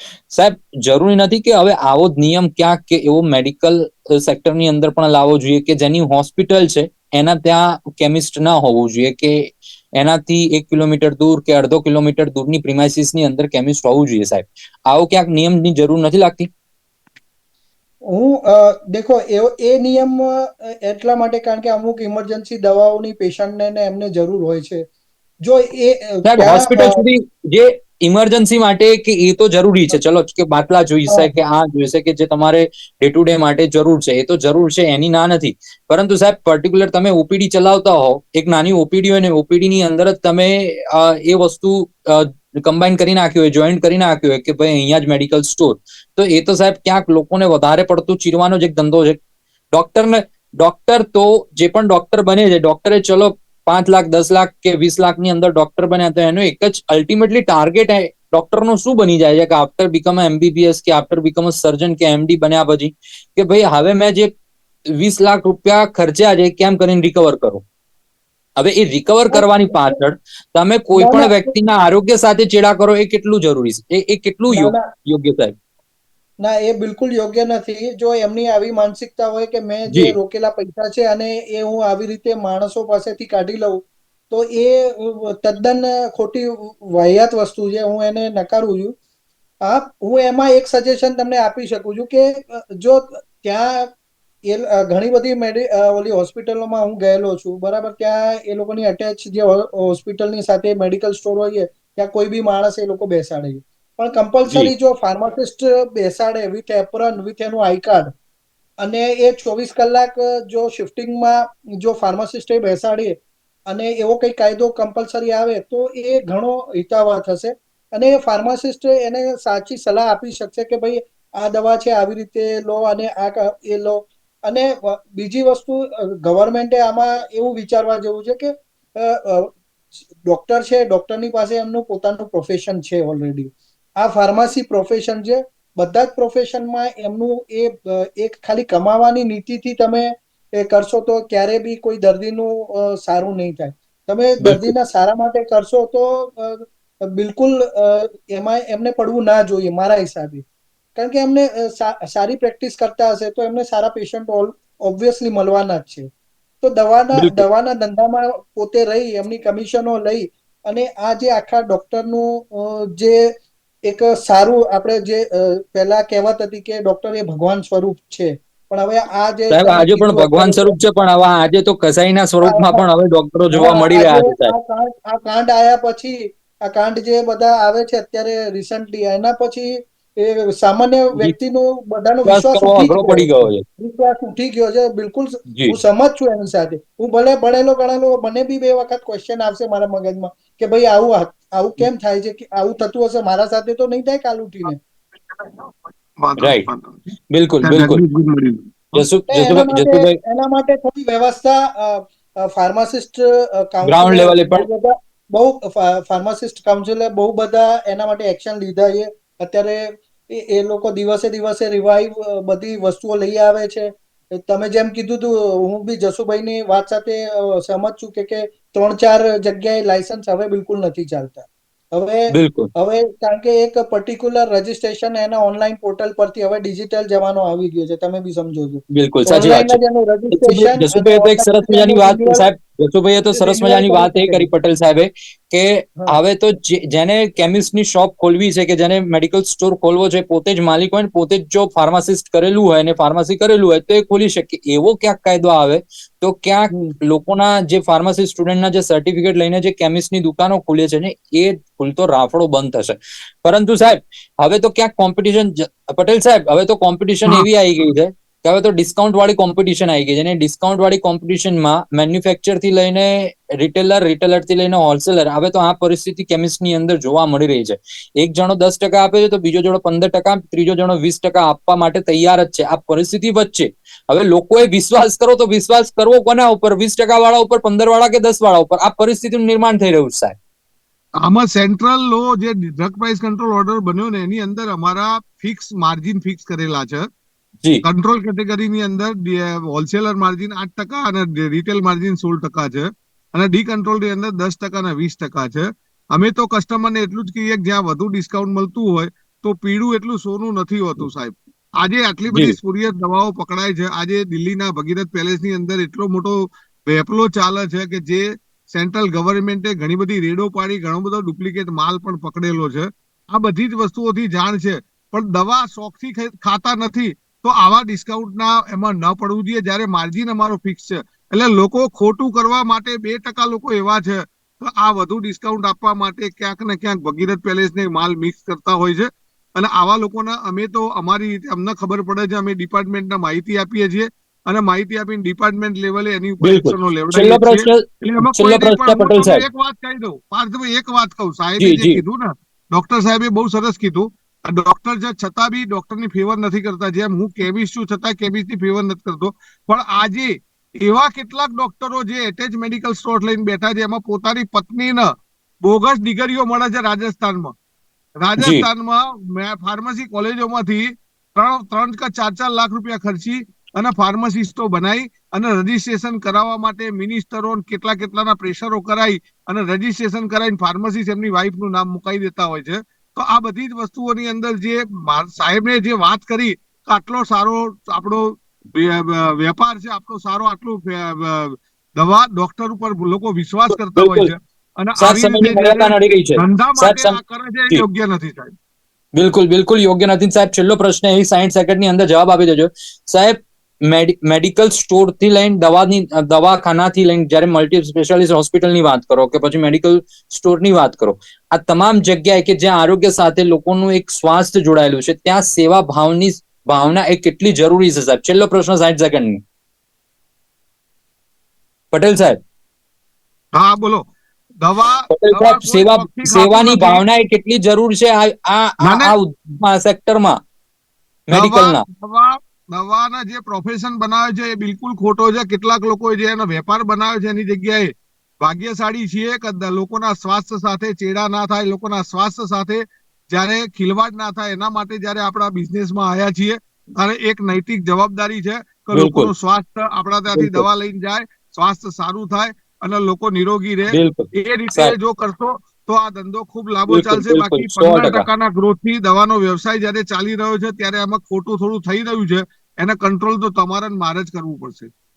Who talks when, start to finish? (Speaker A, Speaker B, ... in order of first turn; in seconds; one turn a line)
Speaker A: 0.3-16.5
Speaker B: 18.1-24.8
Speaker B: 25.4-27.0
Speaker A: 26.2-49.2
Speaker A: 49.7-64.3
Speaker A: 64.9-67.6
Speaker A: 68.6-75.6
Speaker B: 69.3-70.0
Speaker B: 71.0-71.5
Speaker B: 74.5-74.9
Speaker B: 76.4-89.0
Speaker A: 79.9-80.2
Speaker B: 89.6-93.9
Speaker B: 94.5-108.1
Speaker B: 108.8-129.6
Speaker B: 130.3-150.4
Speaker A: 144.4-144.7
Speaker B: 151.0-156.1
Speaker B: 156.6-163.3
Speaker A: 157.1-157.5
Speaker B: 163.9-170.7
Speaker A: 169.5-174.5
Speaker B: 172.4-172.8
Speaker B: 173.5-194.8
Speaker A: 182.3-183.7
Speaker A: 185.5-185.8
Speaker C: 195.3-197.0
Speaker A: 196.4-196.7
Speaker A: 197.3-198.0
Speaker C: 197.6-199.1
Speaker A: 198.9-200.2
Speaker B: 199.3-232.5
Speaker A: 203.8-204.7
Speaker A: 222.3-222.7
Speaker A: 228.9-229.8
Speaker A: 230.3-280.4
Speaker B: 233.3-234.5
Speaker B: 246.7-247.0
Speaker C: 281.2-287.1
Speaker C: 287.8-355.1
Speaker A: 302.3-302.6
Speaker A: 336.4-339.4
Speaker A: 341.6-342.0
Speaker C: 355.6-357.5
Speaker C: 358.2-388.5
Speaker A: 358.4-358.7
Speaker A: 384.0-384.3
Speaker A: 385.0-387.2
Speaker A: 389.2-409.4
Speaker A: 411.9-412.4
Speaker C: 413.5-414.1
Speaker C: 414.6-417.0
Speaker A: 415.1-420.4
Speaker C: 418.8-419.1
Speaker A: 421.3-421.8
Speaker C: 421.3-454.9
Speaker A: 438.9-439.3
Speaker A: 440.3-440.7
Speaker A: 443.9-444.9
Speaker A: 446.9-448.3